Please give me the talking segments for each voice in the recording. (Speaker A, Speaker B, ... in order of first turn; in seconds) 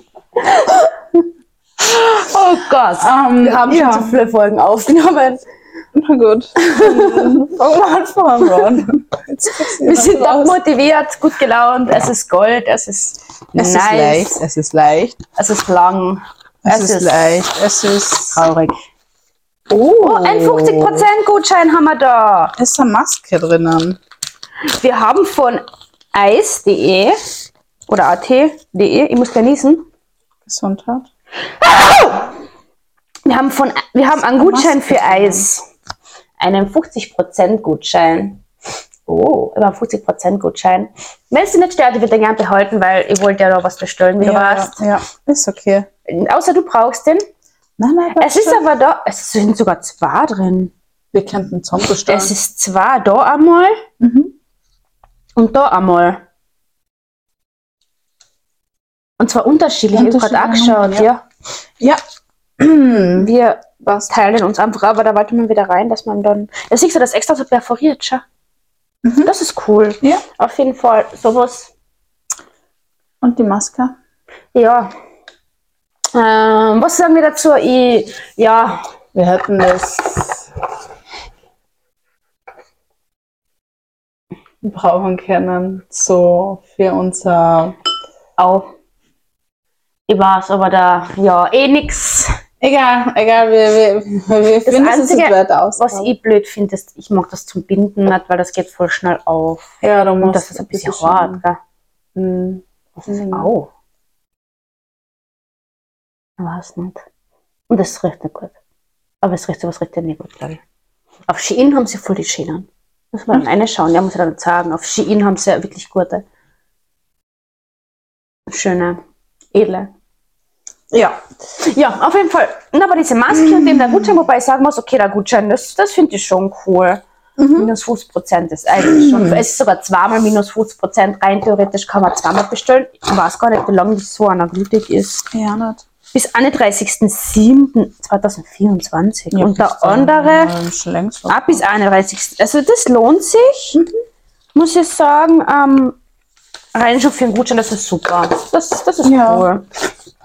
Speaker A: 0.5-0.9, 1.8-5.4, 6.6-7.4, 9.5-14.4, 15.3-17.4, 18.3-18.8, 19.8-22.5, 24.7-25.6, 26.1-27.1, 27.9-29.8, 31.9-32.2, 33.2-35.6, 36.4-38.4, 39.1-44.8, 46.1-47.2, 48.2-50.7, 52.1-53.8, 55.4-56.2, 59.2-61.2, 63.1-68.2, 69.2-71.7, 74.5-74.9, 76.1-78.8, 88.4-88.7, 90.1-92.3, 94.7-101.6, 103.0-103.7, 106.4-107.0, 107.7-108.6, 109.2-110.6, 111.3-116.2, 118.5-119.0, 119.5-119.9, 121.6-127.0, 127.5-135.2, 136.1-140.5, 141.3-143.8, 144.5-146.0, 146.7-149.7
Speaker B: 3.0-4.1, 5.9-10.6, 13.5-15.2, 16.6-18.4, 19.7-21.1, 22.6-24.0, 30.4-31.1, 34.1-35.5, 44.2-45.9, 47.8-48.6, 51.1-52.3, 54.0-54.3, 59.9-61.1, 62.6-63.3, 69.0-69.3, 73.2-73.9, 79.1-80.5, 84.6-87.8, 92.6-96.1, 99.8-101.4, 102.2-103.5, 120.9-121.2, 127.4-127.7, 128.8-129.4, 135.3-135.8, 139.3-141.6, 149.0-149.5